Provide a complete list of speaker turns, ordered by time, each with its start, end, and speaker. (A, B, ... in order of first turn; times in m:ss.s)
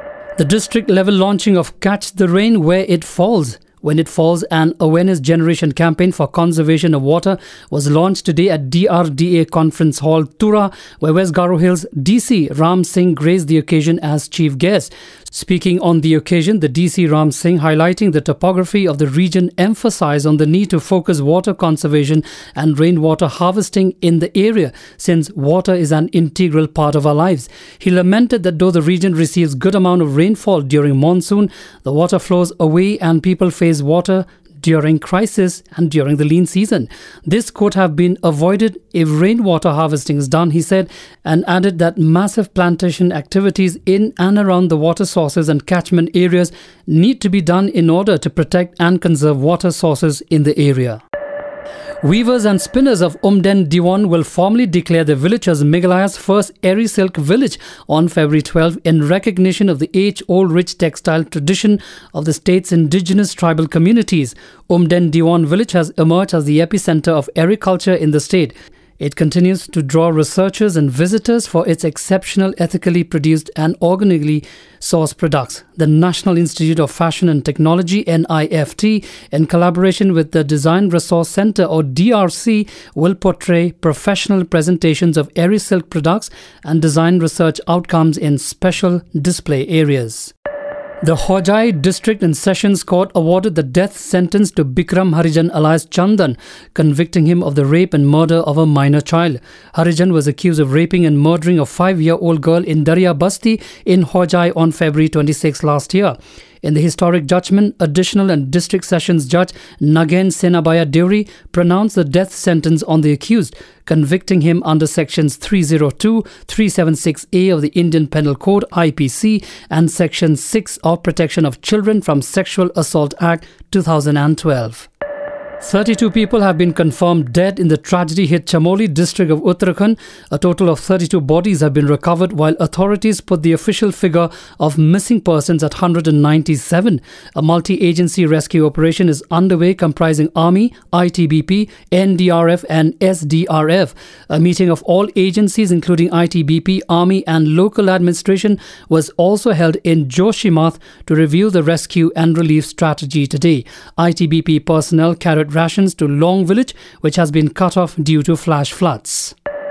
0:00.4-0:51.0 A
0:52.0-1:30.3 A
1:31.0-2:04.9 A
2:05.6-2:39.3 A